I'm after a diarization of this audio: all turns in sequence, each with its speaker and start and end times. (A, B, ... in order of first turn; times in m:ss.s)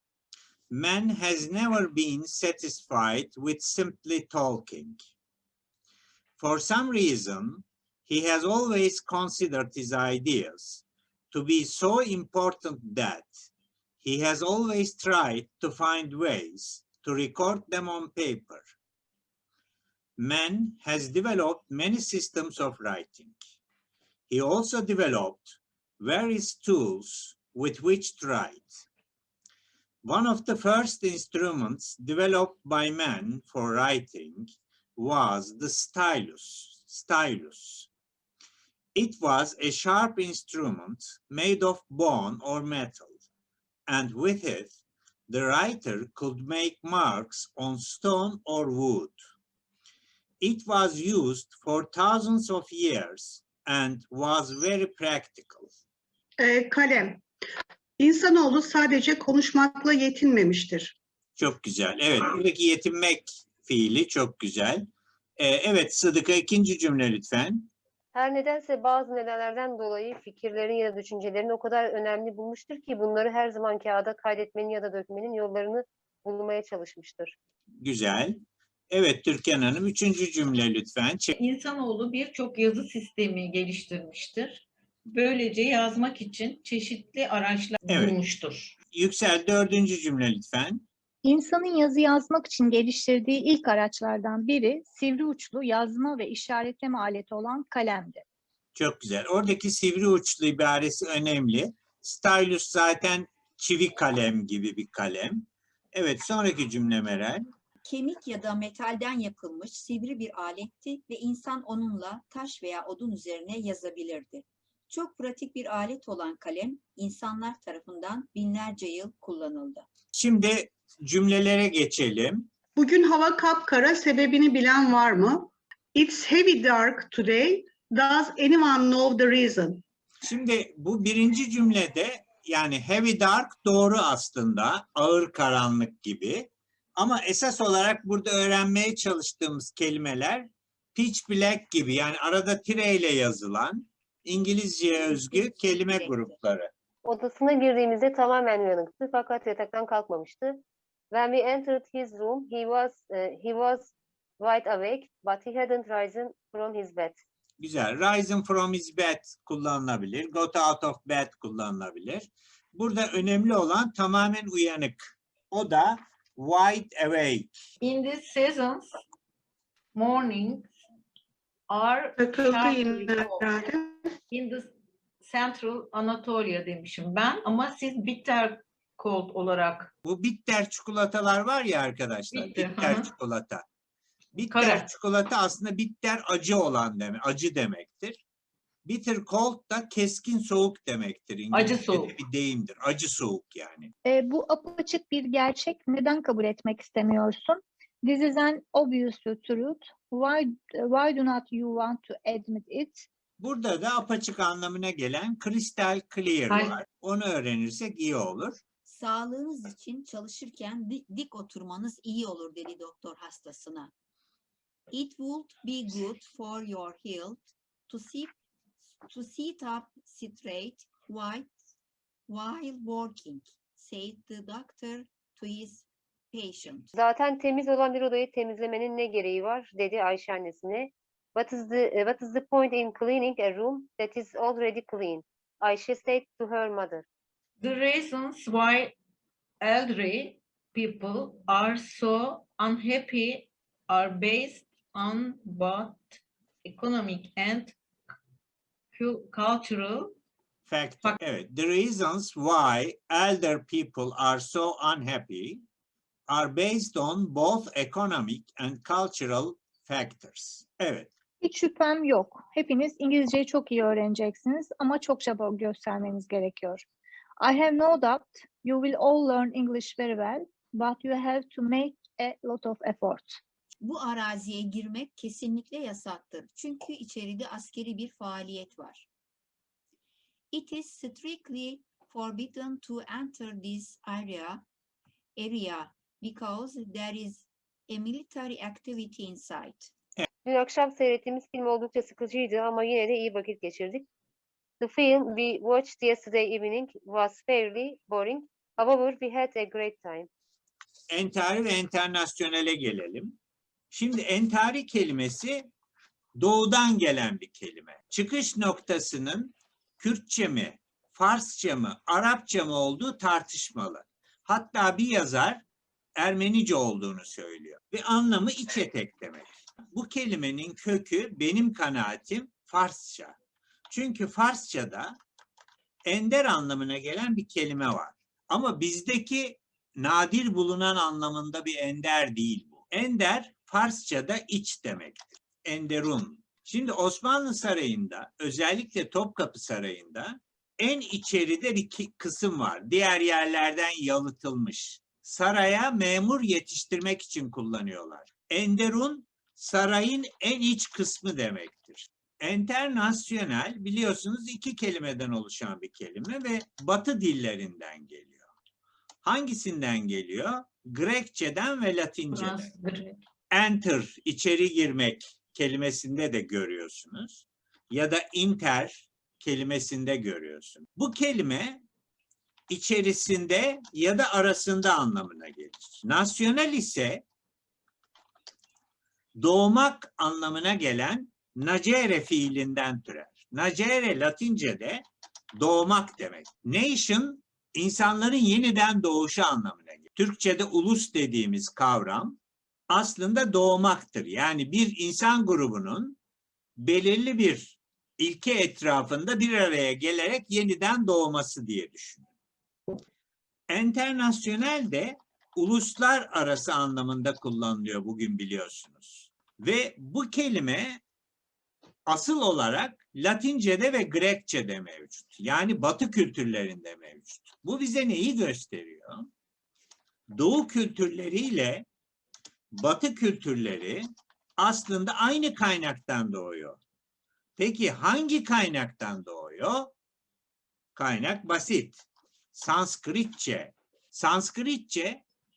0:00.7-0:05.0 A
0:06.4-0:13.3 A
0:14.0-0:18.7 A
0:20.2-0:23.4 A
0:24.3-0:28.8 A
0:30.0-0:37.9 A
0:39.0-0:43.2 A
0:43.9-0:44.7 A
0:45.3-0:49.2 A
0:50.4-0:55.7 A
0:56.4-0:57.2 B
0:58.0-1:01.0 B
1:01.4-1:04.9 A
1:05.4-1:07.7 A
1:08.1-1:17.3 C
1:17.8-1:18.4 A
1:18.9-1:21.4 A
1:21.4-1:28.7 D
1:27.9-1:28.2 A
1:28.9-1:30.8 A
1:31.2-1:38.2 E
1:38.8-1:47.5 A
1:47.8-1:59.9 F
2:00.1-2:02.5 A
2:02.8-2:09.8 B
2:10.2-2:26.7 A
2:25.0-2:26.4 F
2:27.0-2:37.2 C
2:37.6-2:45.0 A
2:45.5-2:47.6 A
2:47.8-2:48.9 D
2:50.0-2:50.7 D
2:51.7-2:53.5 D
2:52.2-2:54.1 B
2:54.3-2:54.7 D
2:55.2-2:59.9 D
3:00.0-3:03.6 A
3:02.3-3:03.1 D
3:04.4-3:08.2 A
3:04.5-3:04.9 D
3:08.8-3:13.9 A
3:11.5-3:12.2 D
3:14.0-3:23.1 E
3:23.4-3:28.6 A
3:26.5-3:26.8 D
3:28.8-3:33.9 F
3:34.9-3:38.3 F
3:39.0-3:41.5 F
3:42.3-3:46.9 F
3:46.9-3:57.0 C
3:57.6-3:59.0 D
3:59.6-4:07.8 D
4:08.9-4:10.2 D
4:10.7-4:15.6 A
4:16.3-4:21.1 A
4:21.4-4:26.8 E
4:27.4-4:33.4 E
4:33.8-4:39.1 F
4:40.5-4:44.6 F
4:45.4-4:49.9 F
4:50.4-4:54.0 C
4:54.8-5:00.3 C
5:01.1-5:03.4 A
5:03.9-5:05.7 A
5:06.4-5:15.6 A
5:16.2-5:23.4 A
5:23.9-5:25.2 A
5:26.1-5:58.5 A
5:59.2-6:02.7 A
6:02.3-6:03.2 D
6:03.5-6:11.8 A
6:12.7-6:17.2 A
6:19.4-6:25.0 A
6:25.6-6:32.4 A
6:32.9-6:36.2 A
6:36.8-6:42.3 A
6:43.7-6:51.0 A
6:52.1-6:59.3 A
7:00.3-7:01.9 A
7:02.7-7:04.1 A
7:04.6-7:06.8 A
7:07.6-7:09.9 A
7:11.0-7:12.0 A
7:12.5-7:15.2 A